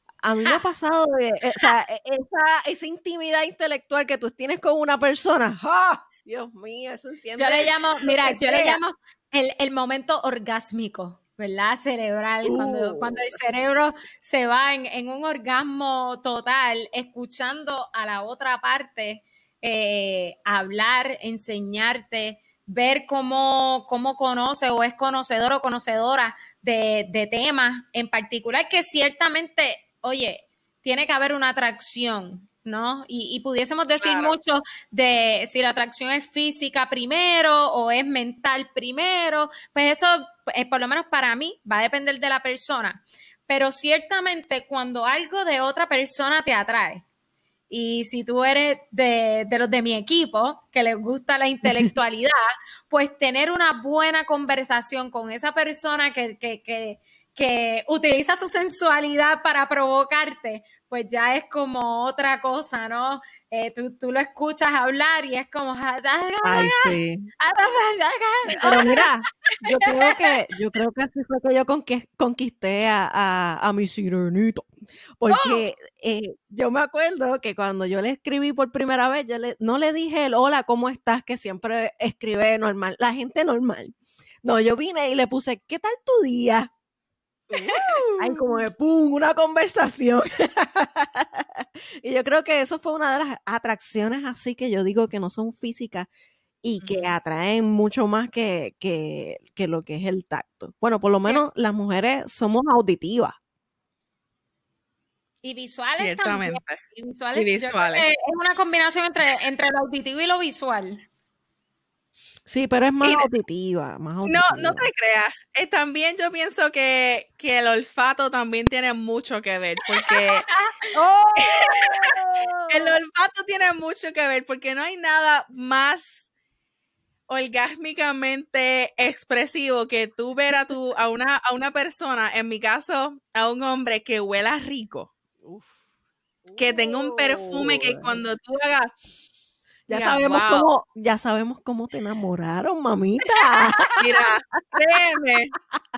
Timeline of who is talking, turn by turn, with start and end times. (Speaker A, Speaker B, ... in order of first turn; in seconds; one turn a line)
Speaker A: 0.2-8.8
Speaker B: 7.4-47.0
Speaker A: 12.4-13.3
Speaker C: 34.0-34.4
Speaker B: 47.7-52.4
Speaker A: 51.7-51.9
Speaker B: 52.9-69.1
Speaker A: 66.4-67.3
Speaker A: 68.6-86.7
Speaker B: 75.3-75.6
Speaker C: 87.5-88.2
Speaker A: 87.5-96.1
Speaker A: 96.6-103.4
Speaker C: 96.8-97.1
Speaker B: 105.4-111.0
Speaker C: 105.9-106.8
Speaker C: 107.3-108.1
Speaker A: 112.5-114.9
Speaker C: 113.0-113.3
Speaker C: 114.2-120.5
Speaker B: 120.0-120.9
Speaker A: 120.9-123.0
Speaker C: 121.4-122.1
Speaker C: 122.7-126.3
Speaker C: 127.3-135.1
Speaker A: 135.4-135.8
Speaker A: 136.4-138.2
Speaker C: 136.6-138.9
Speaker A: 139.9-144.0
Speaker C: 139.9-140.7
Speaker B: 143.2-144.0
Speaker C: 144.0-145.5